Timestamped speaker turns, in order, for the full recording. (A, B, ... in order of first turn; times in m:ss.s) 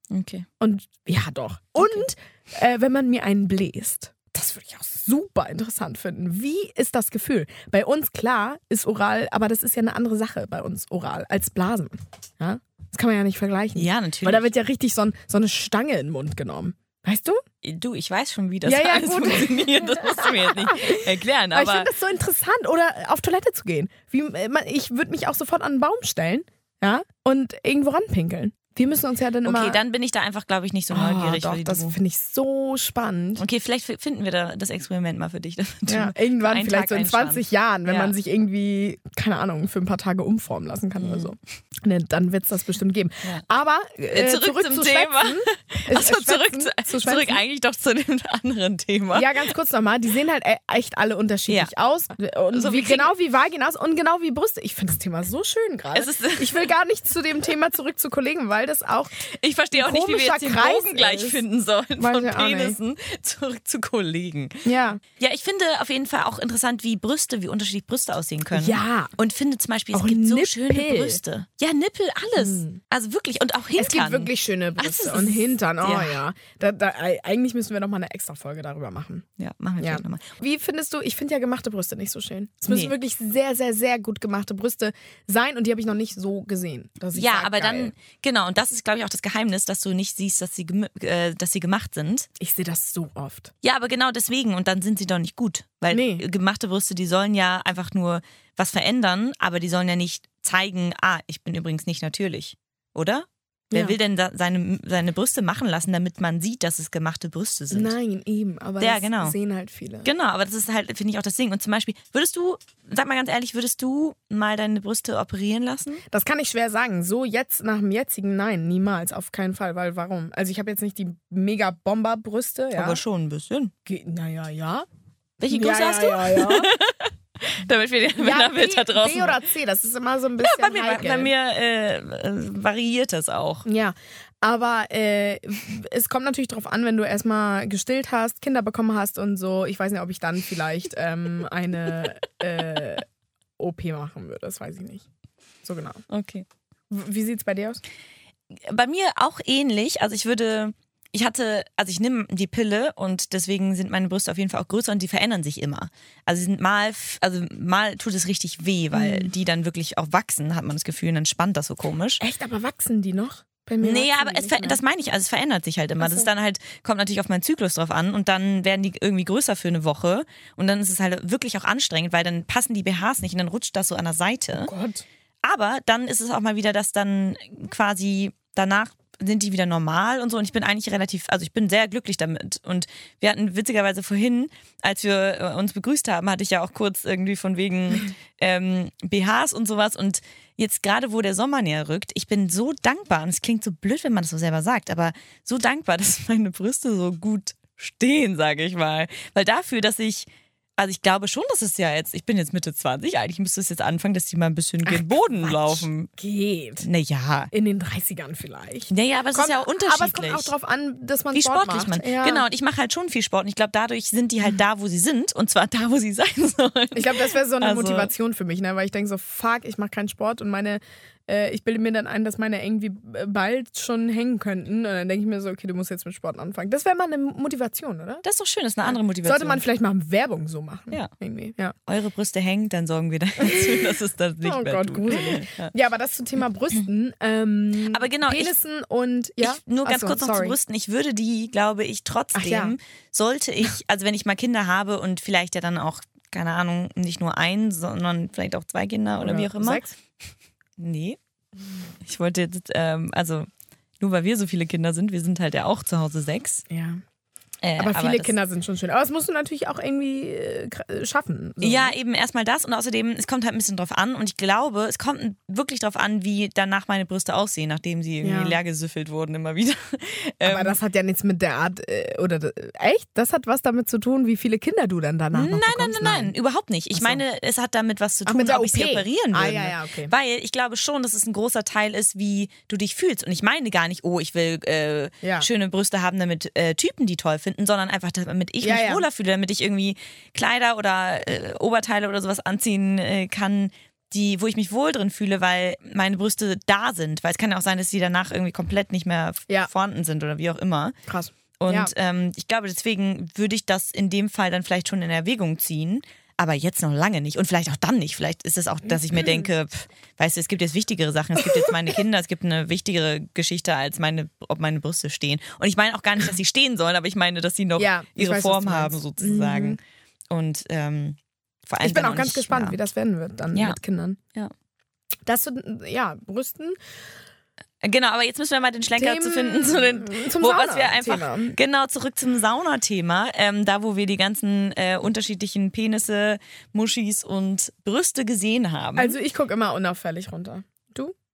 0:00.1-0:00.5 A
0:00.6-0:17.4 B
0:01.8-0:02.1 A
0:13.8-0:14.5 A
0:17.6-0:21.9 A
0:18.6-0:29.8 B
0:29.4-0:32.0 A
0:30.9-0:33.4 B
0:33.4-0:38.1 A
0:35.9-0:47.4 B
0:41.0-0:41.3 A
0:44.1-0:49.5 A
0:49.1-1:01.4 B
0:52.5-0:53.1 A
0:55.9-0:56.7 A
0:59.3-1:16.2 A
1:02.0-1:02.8 B
1:04.6-1:05.0 B
1:08.5-1:09.1 B
1:09.9-1:11.2 B
1:12.4-1:12.8 B
1:13.8-1:19.3 B
1:19.4-1:20.4 A
1:19.8-1:27.9 B
1:22.7-1:22.9 A
1:27.1-1:32.3 A
1:32.4-1:33.5 B
1:33.6-1:48.0 A
1:35.9-1:36.2 B
1:43.7-1:44.0 B
1:47.7-1:50.1 B
1:48.8-1:49.4 A
1:50.0-1:56.0 A
1:56.1-2:03.0 B
2:02.8-2:03.7 A
2:03.9-2:04.9 B
2:05.4-2:09.4 A
2:05.5-2:06.7 B
2:08.2-2:11.3 B
2:10.4-2:13.7 A
2:13.6-2:23.0 B
2:23.6-2:25.1 B
2:25.6-2:26.0 B
2:26.1-2:26.5 A
2:26.9-2:27.8 B
2:28.6-2:42.2 A
2:38.9-2:39.3 B
2:42.2-2:44.8 B
2:43.8-2:54.7 A
2:46.0-2:46.3 B
2:54.6-2:55.0 B
2:55.4-3:26.1 A
3:24.8-3:26.9 B
3:26.8-3:27.5 A
3:27.5-3:32.4 B
3:28.9-3:30.5 A
3:31.3-3:38.1 A
3:37.0-3:48.2 B
3:48.2-3:49.6 A
3:48.9-3:51.8 B
3:51.9-3:55.7 A
3:53.4-4:00.6 B
3:57.9-3:58.5 A
3:59.4-4:09.8 A
4:02.3-4:02.8 B
4:09.2-4:09.9 B
4:10.8-4:11.2 A
4:12.0-4:13.5 A
4:14.0-4:16.6 A
4:16.7-4:17.0 B
4:17.6-4:18.4 A
4:17.8-4:22.0 B
4:21.6-4:30.8 A
4:28.2-4:28.6 B
4:30.4-4:36.3 B
4:35.3-5:01.0 A
4:36.9-4:37.2 B
4:38.3-4:40.1 B
4:45.2-4:45.5 B
4:48.6-4:49.1 B
5:01.1-5:01.9 B
5:01.6-5:22.8 A
5:09.0-5:09.5 B
5:11.4-5:11.7 B
5:17.8-5:19.8 B
5:21.8-5:24.2 B
5:23.5-5:23.8 A
5:25.3-5:26.8 B
5:27.8-5:39.2 A
5:29.0-5:31.6 B
5:39.0-5:41.1 B